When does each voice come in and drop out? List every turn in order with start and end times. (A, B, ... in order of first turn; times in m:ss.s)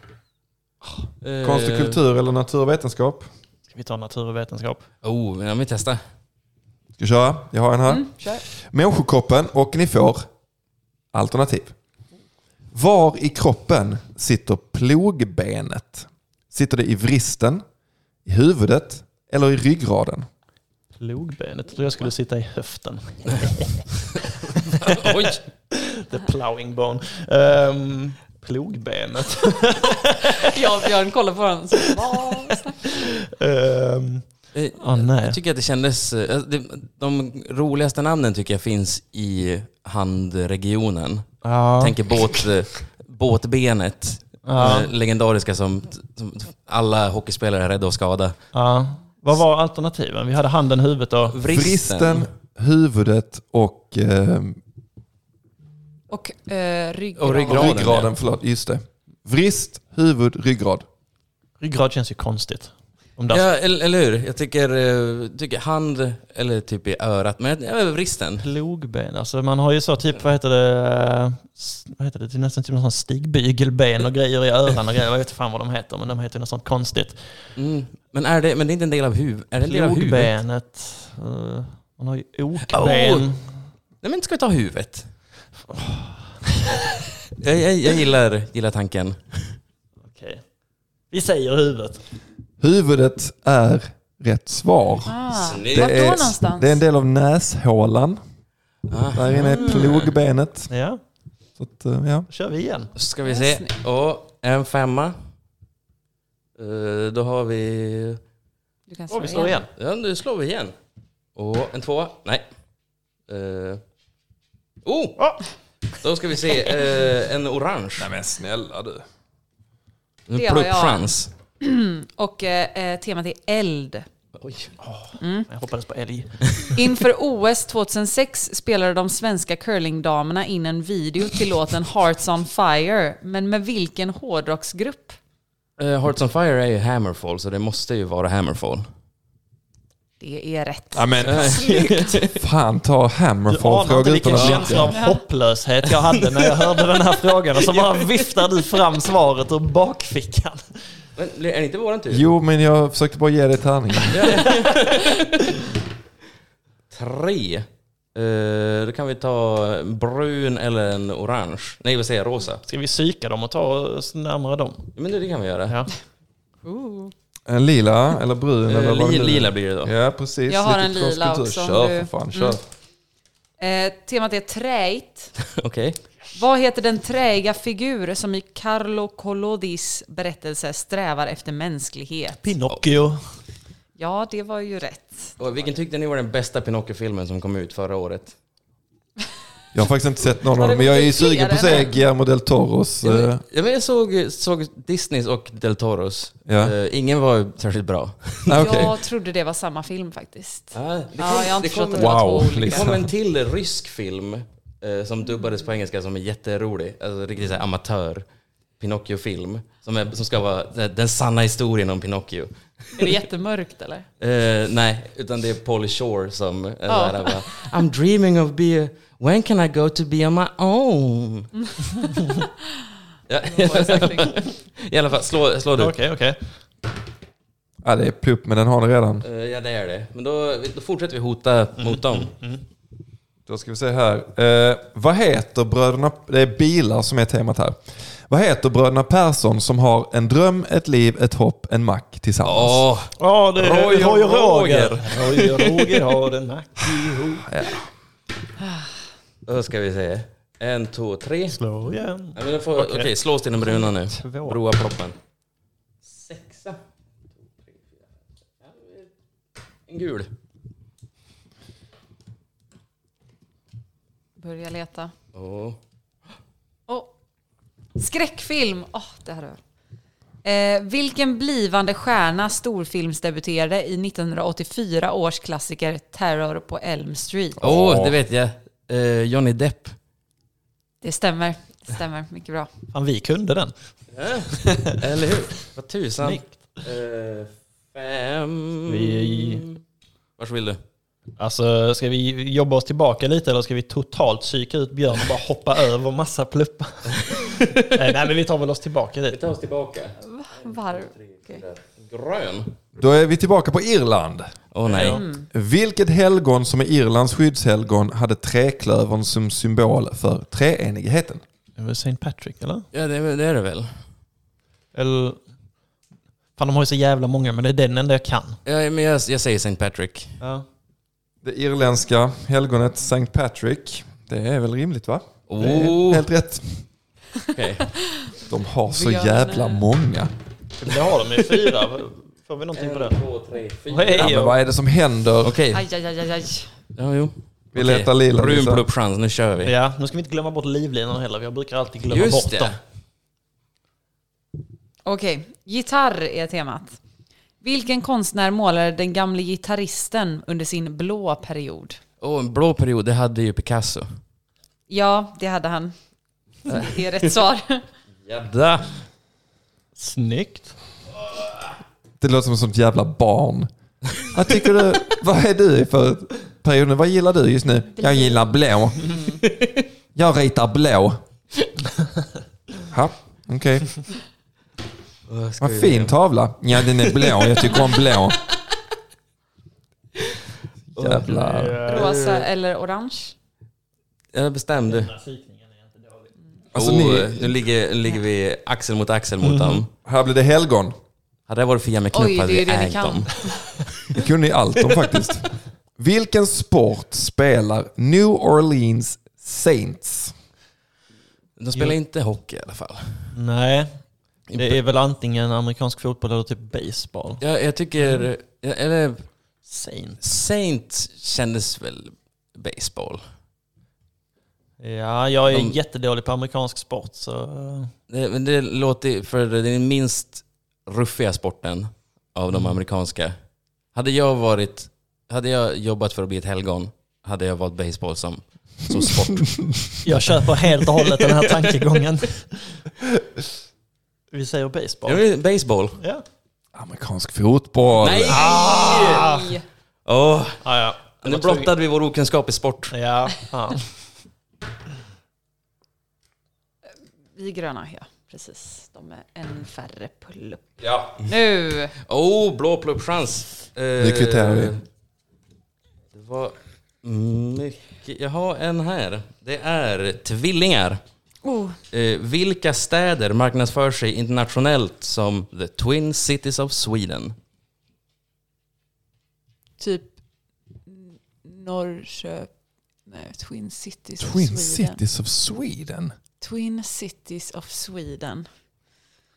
0:01.2-0:02.0 A
0:01.4-0:03.3 B
0:03.7-0:04.8 C
0:05.0-0:06.0 A
0:07.0-0:10.3 B
0:07.9-0:08.4 D
0:11.1-0:11.7 B
0:12.7-0:17.6 B
0:18.2-0:20.3 B
0:21.0-0:23.9 C
0:24.5-0:30.6 C
0:24.6-0:25.4 A
0:30.4-0:32.9 D
0:32.3-0:35.4 C
0:34.5-0:48.3 A
0:41.4-0:42.0 C
0:44.4-0:44.9 C
0:48.5-0:51.4 C
0:51.3-0:52.3 A
0:51.4-0:54.6 B
0:56.1-0:57.9 D
0:57.2-0:58.1 A
0:57.5-1:00.8 B
1:01.6-1:03.4 C
1:03.3-1:08.4 A
1:08.4-1:17.2 C
1:17.6-1:20.3 A
1:19.6-1:23.5 C
1:22.7-1:23.3 A
1:24.0-1:25.1 A
1:25.7-1:26.3 C
1:27.3-1:29.6 A
1:30.1-1:30.4 C
1:31.1-1:32.0 C
1:32.6-1:38.2 B
1:35.0-1:36.8 D
1:35.3-1:35.9 A
1:38.9-1:40.1 A
1:39.1-1:40.7 B
1:40.7-1:41.0 C
1:41.6-1:42.3 B
1:42.3-1:42.9 C
1:43.0-1:45.2 A
1:43.2-1:43.7 D
1:46.6-1:48.2 A
1:48.9-1:49.6 D
1:49.1-1:49.7 C
1:49.8-1:50.7 A
1:51.4-1:52.4 A
1:53.3-1:53.8 A
1:54.8-1:55.3 A
1:56.0-1:58.1 A
1:58.0-1:59.0 B
2:00.3-2:01.3 A
2:00.3-2:04.0 D
2:04.4-2:04.7 A
2:04.8-2:06.8 C
2:05.2-2:05.5 D
2:06.7-2:15.2 D
2:15.8-2:18.9 A
2:20.2-2:22.2 D
2:20.9-2:21.6 B
2:21.2-2:22.4 A
2:22.3-2:24.9 B
2:23.5-2:30.6 C
2:24.3-2:24.8 A
2:24.8-2:25.2 D
2:27.7-2:28.1 A
2:31.2-2:32.3 A
2:32.1-2:34.5 B
2:34.1-2:35.6 A
2:36.9-2:42.6 A
2:42.6-2:44.9 C
2:45.0-2:45.8 A
2:46.6-2:47.1 D
2:47.5-2:52.6 B
2:48.7-2:49.9 A
2:50.5-2:52.6 D
2:53.6-2:55.3 D
2:55.5-2:56.0 A
2:56.3-3:02.4 D
3:02.4-3:03.2 C
3:04.0-3:05.4 D
3:05.4-3:08.3 A
3:09.7-3:13.4 B
3:10.4-3:11.9 D
3:13.0-3:18.9 A
3:16.5-3:16.7 B
3:18.5-3:18.9 B
3:18.5-3:22.9 D
3:20.7-3:28.2 A
3:21.9-3:23.1 B
3:28.8-3:33.2 A
3:33.0-3:34.0 D
3:34.2-3:41.5 A
3:36.9-3:37.6 D
3:43.3-3:46.0 A
3:43.6-3:44.3 D
3:45.8-3:46.5 C
3:47.8-3:49.2 B
3:49.2-3:52.3 A
3:51.8-3:52.6 C
3:53.5-4:02.8 B
4:02.4-4:06.1 A
4:03.2-4:07.5 C
4:07.4-4:07.8 B
4:09.4-4:11.6 A
4:11.5-4:14.6 C
4:12.3-4:15.2 A
4:16.0-4:16.8 A
4:18.6-4:19.1 A
4:19.9-4:20.3 A
4:24.4-4:25.1 D
4:25.3-4:25.8 A
4:26.9-4:27.1 D
4:28.0-4:29.6 D
4:30.4-4:37.6 D
4:37.6-4:38.2 B
4:37.6-4:40.0 A
4:41.0-4:42.7 D
4:42.9-4:43.7 C
4:44.1-4:49.8 A
4:44.5-4:44.9 C
4:46.2-4:46.5 C
4:48.9-4:49.6 C
4:50.4-4:50.8 A
4:51.4-4:59.4 C
4:57.3-4:57.9 A
4:59.3-5:02.7 A
5:00.2-5:01.6 D
5:03.0-5:04.5 B
5:04.7-5:05.2 A
5:04.8-5:05.2 C
5:05.1-5:05.5 D
5:05.5-5:11.4 B
5:11.8-5:12.8 C
5:12.9-5:13.9 A
5:14.9-5:15.4 C
5:16.6-5:18.6 C
5:18.6-5:20.4 A
5:20.4-5:20.6 C
5:21.4-5:26.8 B
5:25.5-5:26.3 A
5:27.5-5:27.8 A
5:28.4-5:30.3 B
5:28.9-5:29.8 D
5:30.8-5:33.2 C
5:32.7-5:34.5 A
5:33.9-5:34.6 C
5:34.1-5:35.6 B
5:35.4-5:35.8 A
5:35.7-5:36.7 D
5:36.9-5:39.7 A
5:37.7-5:38.8 B
5:39.6-5:42.8 C
5:42.1-5:42.8 A
5:45.0-5:47.0 D
5:47.6-5:52.0 D
5:52.2-5:54.1 A
5:54.9-5:55.9 D
5:56.7-5:57.8 D
5:58.2-5:58.9 A
6:00.0-6:00.7 C
6:02.2-6:03.7 B
6:04.2-6:09.2 B
6:09.1-6:09.4 D
6:09.4-6:09.8 A
6:10.1-6:11.2 B
6:12.9-6:14.0 B
6:15.3-6:16.2 A
6:15.6-6:18.4 B
6:17.0-6:18.0 A
6:20.9-6:21.8 B
6:21.0-6:22.4 A
6:21.2-6:22.2 C
6:21.9-6:23.3 D
6:24.3-6:25.1 A
6:24.9-6:26.3 C
6:26.7-6:27.5 B
6:26.7-6:29.9 A
6:29.4-6:29.8 C
6:30.0-6:30.9 B
6:31.5-6:33.4 A
6:32.1-6:33.6 D
6:34.1-6:40.3 B
6:41.6-6:43.3 A
6:43.3-6:43.9 C
6:44.5-6:44.8 A
6:44.5-6:47.4 C
6:47.4-6:49.3 A
6:48.0-6:48.3 C
6:49.6-6:50.2 C
6:50.2-6:53.2 A
6:54.8-6:57.9 C
6:55.5-6:55.8 A
6:58.1-7:03.3 A
7:03.9-7:10.0 A
7:09.5-7:09.8 B
7:10.0-7:12.8 C
7:11.0-7:11.9 A
7:14.3-7:15.2 C
7:15.0-7:16.0 A
7:16.7-7:18.5 B
7:18.0-7:19.3 A
7:18.2-7:19.6 C
7:18.6-7:19.6 D
7:20.0-7:20.6 A
7:20.6-7:21.7 C
7:21.2-7:22.9 A
7:22.9-7:23.9 C
7:27.4-7:31.9 D
7:30.8-7:31.3 A
7:32.0-7:34.8 A
7:34.0-7:34.7 B
7:36.1-7:41.0 A
7:41.4-7:41.8 D
7:41.9-7:47.3 A
7:49.8-7:50.1 D
7:50.9-7:52.5 D
7:53.1-7:55.0 D
7:54.2-7:56.1 B
7:56.4-7:58.5 D